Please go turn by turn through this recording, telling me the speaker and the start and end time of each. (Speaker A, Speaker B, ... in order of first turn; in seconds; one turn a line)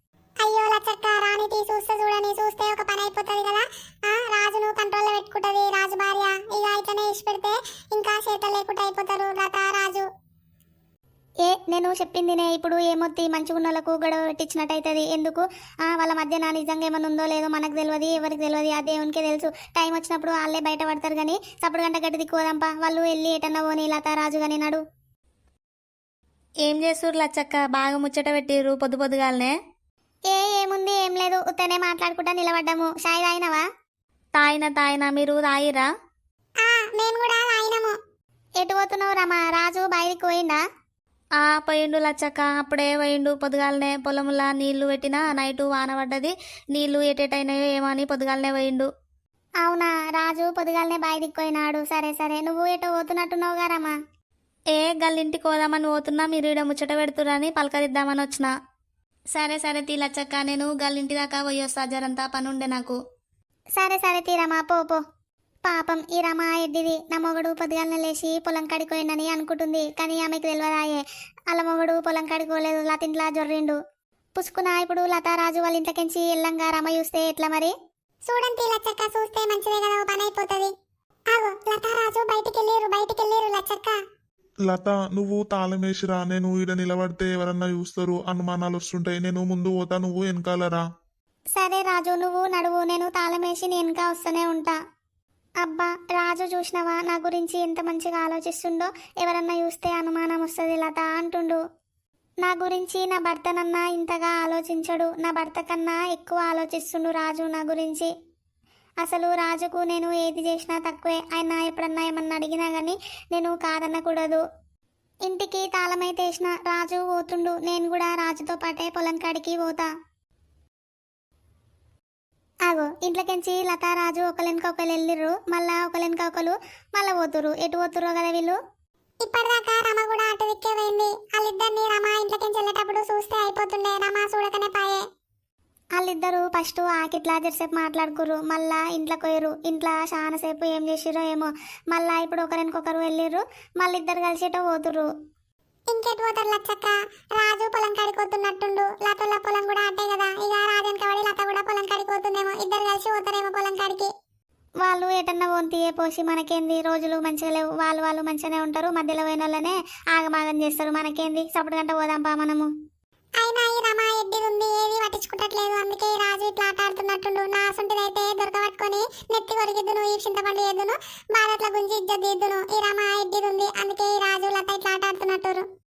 Speaker A: 0.4-10.1
Speaker B: 11.4-24.8
Speaker C: 26.7-29.5
Speaker B: 30.3-33.6
Speaker C: 34.4-35.9
Speaker A: 36.6-38.0
Speaker B: 38.6-40.6
Speaker C: 41.4-48.9
Speaker B: 49.6-54.0
Speaker C: 54.8-58.5
Speaker C: 59.3-63.0
Speaker B: 63.8-65.0
Speaker B: 65.7-73.8
Speaker B: 74.4-77.7
Speaker A: 78.3-80.7
Speaker A: 81.3-84.0
Speaker D: 84.7-90.8
Speaker B: 91.6-94.8
Speaker B: 95.6-101.6
Speaker B: 102.4-108.1
Speaker B: 109.0-114.4
Speaker B: 115.3-119.9
Speaker B: 122.7-128.6
Speaker A: 129.2-135.0
Speaker B: 136.0-145.1
Speaker A: 145.9-154.1
Speaker B: 154.8-162.7
Speaker A: 163.4-175.7